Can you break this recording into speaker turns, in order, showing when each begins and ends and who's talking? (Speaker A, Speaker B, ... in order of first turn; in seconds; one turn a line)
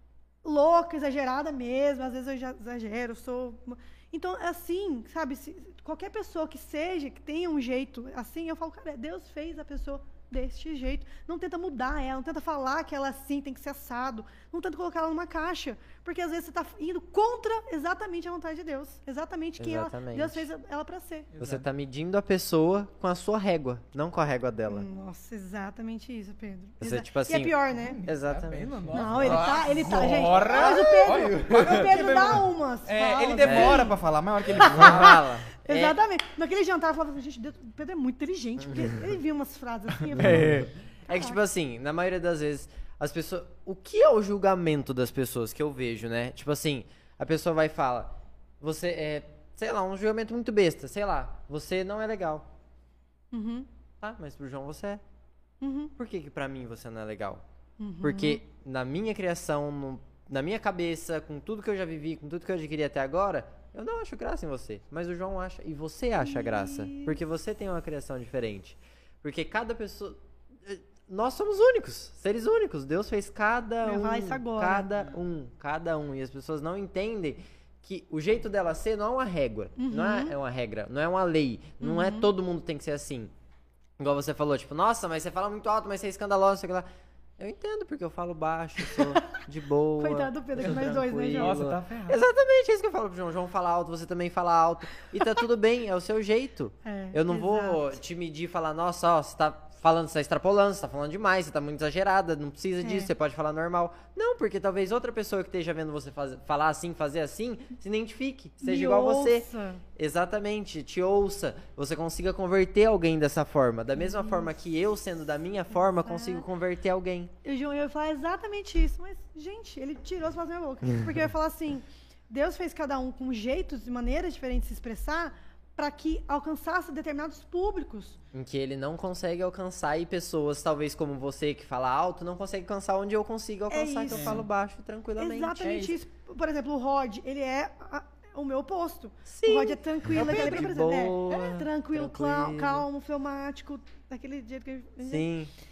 Speaker A: 0.4-21.3
Speaker B: 19.6-20.4
Speaker C: 21.3-21.6
Speaker B: 21.4-24.9
Speaker A: 24.7-28.0
Speaker B: 26.8-29.4
Speaker C: 27.8-35.2
Speaker A: 28.9-34.0
Speaker B: 30.6-31.8
Speaker B: 33.4-33.9
Speaker A: 34.5-41.4
Speaker B: 34.5-36.0
Speaker C: 40.2-40.7
Speaker B: 40.2-52.5
Speaker A: 53.3-53.7
Speaker B: 54.0-55.0
Speaker A: 55.6-55.9
Speaker B: 56.0-57.4
Speaker A: 57.8-58.4
Speaker B: 58.0-83.3
Speaker A: 66.2-67.2
Speaker A: 73.8-74.9
Speaker A: 79.8-80.3
Speaker A: 81.8-82.3
Speaker B: 84.0-86.9
Speaker B: 87.4-117.3
Speaker A: 88.8-89.4
Speaker A: 90.0-91.6
Speaker C: 90.6-92.2
Speaker A: 96.8-98.0
Speaker A: 102.8-103.1
Speaker A: 108.6-109.8
Speaker A: 114.0-114.5
Speaker A: 116.0-116.5
Speaker A: 117.4-128.2
Speaker B: 128.3-135.9
Speaker A: 133.7-134.4
Speaker C: 134.1-134.5
Speaker A: 135.2-145.3
Speaker C: 135.6-135.9
Speaker B: 139.2-142.8
Speaker C: 140.2-140.7
Speaker B: 145.0-145.5